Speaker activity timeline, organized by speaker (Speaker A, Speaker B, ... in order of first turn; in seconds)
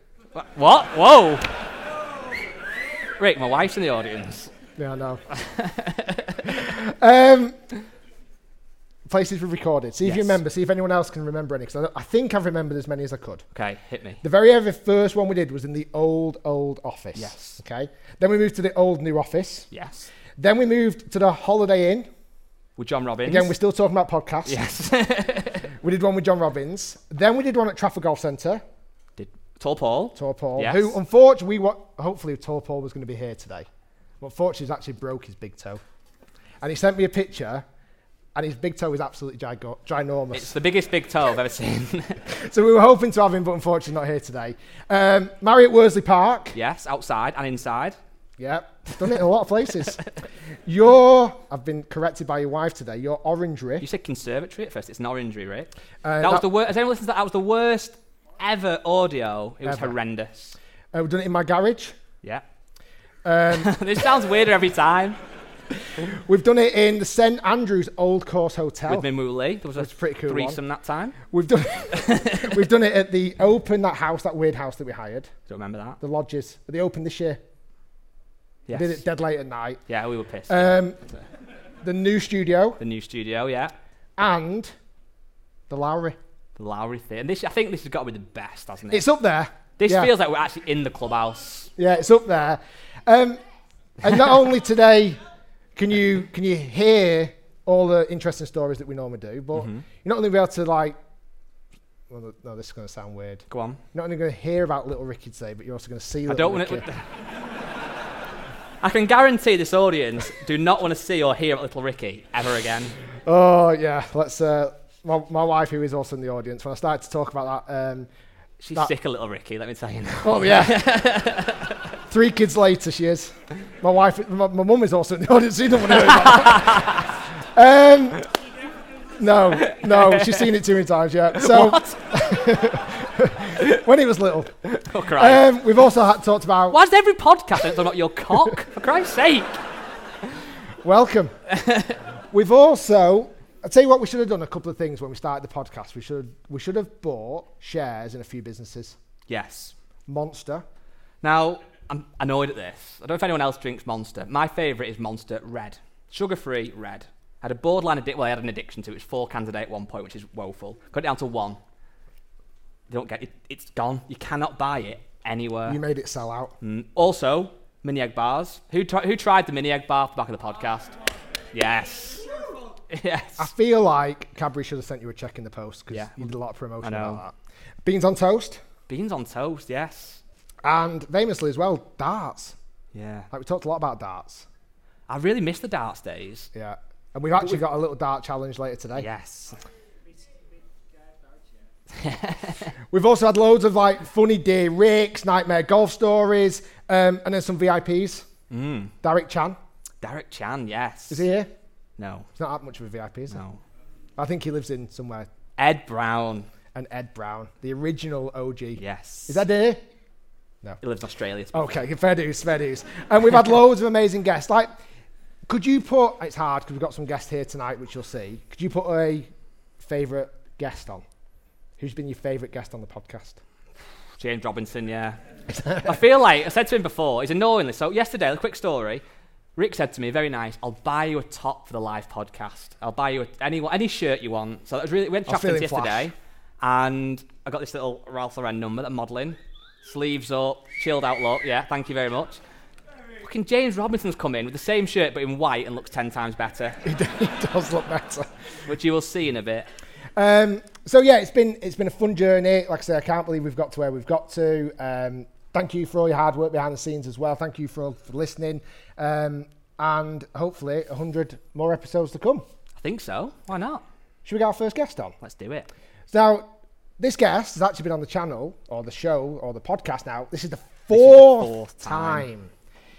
Speaker A: 0.3-1.6, 3.2-4.5, 5.4-6.3, 10.0-10.4, 13.5-14.2, 17.1-17.6, 19.7-20.1, 22.8-23.5, 24.4-25.7, 29.2-30.9, 40.3-42.2, 46.5-48.0, 53.8-55.7, 56.2-60.5, 63.5-65.2, 68.9-71.2, 72.0-72.5, 75.5-76.0, 78.7-79.0, 79.9-81.2, 82.8-83.7, 86.6-89.1, 89.8-91.7, 99.5-99.8, 103.5-103.8, 106.3-107.0, 108.8-113.0, 118.6-121.8, 126.0-127.1, 129.7-130.4, 131.3-132.0, 134.7-135.4, 136.7-139.6, 141.5-141.9, 149.3-149.7, 151.2-161.6, 162.9-165.8, 166.6-170.9, 171.5-172.3, 172.9-173.5, 175.9-176.3, 176.8-177.2, 178.9-180.2, 182.9-183.3, 185.1-186.5, 189.0-189.6, 191.9-192.7, 198.5-198.9, 200.0-201.3, 202.0-202.3, 203.3-203.6, 205.6-206.5, 208.8-209.4, 210.8-211.7, 224.2-225.2, 225.8-229.0, 229.6-242.4, 243.2-246.8, 248.7-249.7, 262.8-263.8, 265.2-265.7, 270.9-272.3
Speaker B: 4.8-5.2, 6.4-7.6, 9.1-13.4, 14.2-19.7, 20.4-22.1, 23.2-24.6, 25.8-28.6, 30.1-33.7, 34.2-35.8, 36.6-37.6, 38.3-40.5, 42.3-46.5, 48.4-50.0, 50.6-53.9, 56.0-56.5, 59.6-59.9, 60.9-62.0, 63.2-63.8, 66.0-69.1, 69.8-70.6, 71.2-75.3, 76.0-77.4, 78.7-79.8, 80.5-81.0, 81.8-82.8, 84.2-84.7, 85.7-86.2, 88.9-90.1, 91.8-93.4, 94.0-95.2, 95.8-101.0, 102.1-106.8, 113.2-118.1, 120.2-120.9, 122.1-128.2, 129.2-134.5, 135.2-136.8, 140.8-141.3, 142.3-148.9, 150.1-150.6, 165.7-166.5, 173.4-178.6, 180.6-182.6, 183.3-184.5, 186.5-189.1, 192.9-198.2, 199.0-199.6, 201.1-201.5, 202.4-203.4, 204.2-205.3, 206.7-209.8, 211.5-214.7, 215.5-221.0, 221.8-223.4, 225.6-225.8, 235.2-236.1, 246.8-248.3, 250.2-262.4, 264.2-265.1, 266.1-272.5